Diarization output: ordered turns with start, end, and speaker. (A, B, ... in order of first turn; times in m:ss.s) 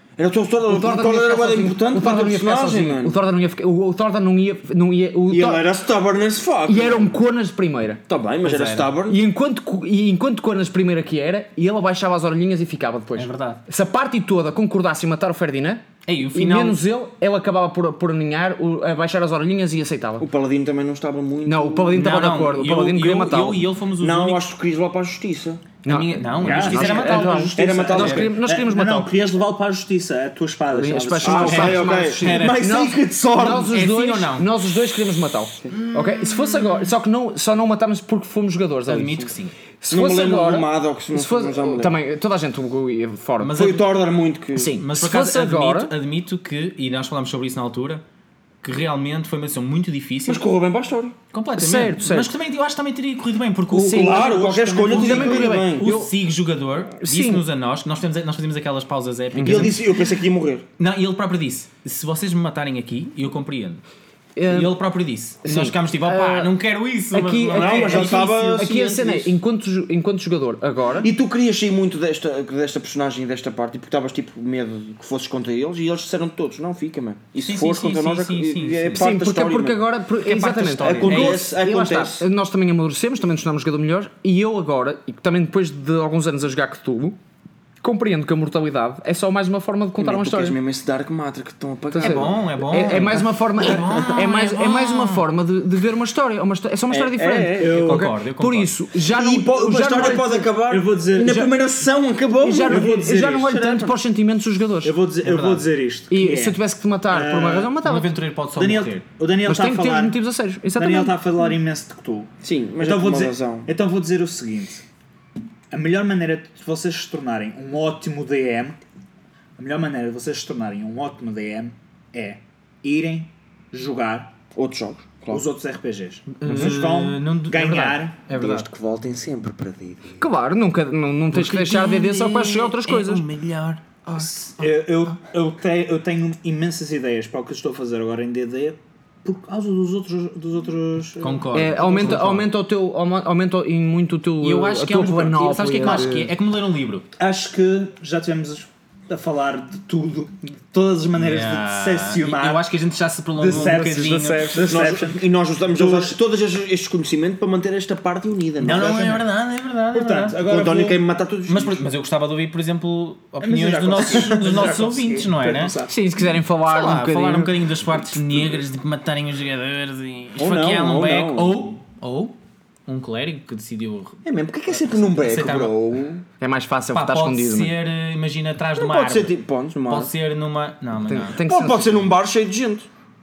0:00.2-0:03.2 A
0:00.7-0:05.7 B
0:05.3-0:07.2 A
0:06.7-0:08.0 B
0:08.1-0:09.2 A
0:08.4-0:08.9 C
0:09.1-0:20.3 B
0:13.2-0:13.6 C
0:16.1-0:16.8 C
0:20.2-0:22.1 A
0:21.4-0:23.6 B
0:21.9-0:24.4 C
0:24.0-0:25.6 A
0:25.8-0:29.1 B
0:25.9-0:28.3 C
0:26.4-0:32.0 D
0:26.7-0:28.3 A
0:30.7-0:43.6 B
0:31.2-0:33.7 A
0:31.4-0:32.6 C
0:33.5-0:34.5 C
0:36.1-0:36.4 C
0:38.9-0:39.5 C
0:39.9-0:42.0 A
0:43.4-0:43.9 C
0:43.5-0:44.8 A
0:44.6-0:45.9 B
0:44.8-0:48.0 C
0:48.6-0:50.4 C
0:50.3-0:51.2 A
0:51.3-0:54.2 C
0:51.6-0:52.3 B
0:53.7-0:54.3 B
0:53.7-0:56.0 A
0:54.0-0:55.6 D
0:54.9-1:00.0 C
0:54.9-0:56.1 B
0:57.0-0:57.4 B
0:59.4-0:59.7 B
0:59.4-1:00.7 A
1:00.8-1:03.8 C
1:04.4-1:04.8 B
1:04.5-1:08.6 C
1:05.4-1:06.5 B
1:07.1-1:11.1 B
1:07.5-1:09.4 A
1:11.0-1:19.8 A
1:17.4-1:19.1 C
1:19.0-1:27.2 B
1:20.2-1:21.4 C
1:20.8-1:22.3 A
1:27.8-1:30.6 B
1:30.0-1:33.2 A
1:31.9-1:40.5 B
1:32.0-1:35.2 C
1:36.9-1:37.9 A
1:37.6-1:38.1 D
1:37.7-1:38.7 C
1:39.1-1:44.0 A
1:39.9-1:41.6 D
1:42.4-1:45.0 B
1:42.6-1:43.6 D
1:44.8-1:46.6 D
1:45.2-1:45.7 C
1:46.1-1:48.1 B
1:47.1-1:47.8 D
1:47.8-1:49.0 C
1:48.6-1:50.2 D
1:49.5-1:51.2 B
1:50.8-1:54.8 D
1:52.4-1:53.7 A
1:55.7-1:58.8 D
1:59.6-2:04.3 D
2:04.6-2:05.4 A
2:05.3-2:08.2 D
2:06.4-2:08.7 C
2:06.5-2:06.7 B
2:08.3-2:10.2 A
2:10.2-2:13.2 B
2:11.3-2:15.2 C
2:14.2-2:22.2 D
2:21.2-2:22.5 C
2:21.5-2:26.3 B
2:24.4-2:27.1 C
2:25.8-2:26.1 D
2:27.2-2:32.6 D
2:31.2-2:34.7 C
2:33.4-2:36.2 D
2:33.5-2:34.7 B
2:34.6-2:39.2 A
2:38.6-2:39.3 D
2:38.6-2:40.4 C
2:39.9-2:41.0 D
2:40.4-2:41.9 A
2:41.5-2:45.8 C
2:43.4-2:45.9 D
2:44.0-2:44.2 A
2:45.9-2:47.5 B
2:46.7-2:52.3 C
2:50.4-2:51.6 A
2:52.9-2:54.2 C
2:54.2-2:56.2 A
2:54.8-2:55.8 C
2:56.4-2:57.7 B
2:56.9-3:01.4 C
2:58.8-3:00.1 A
3:01.1-3:02.1 B
3:01.4-3:02.9 A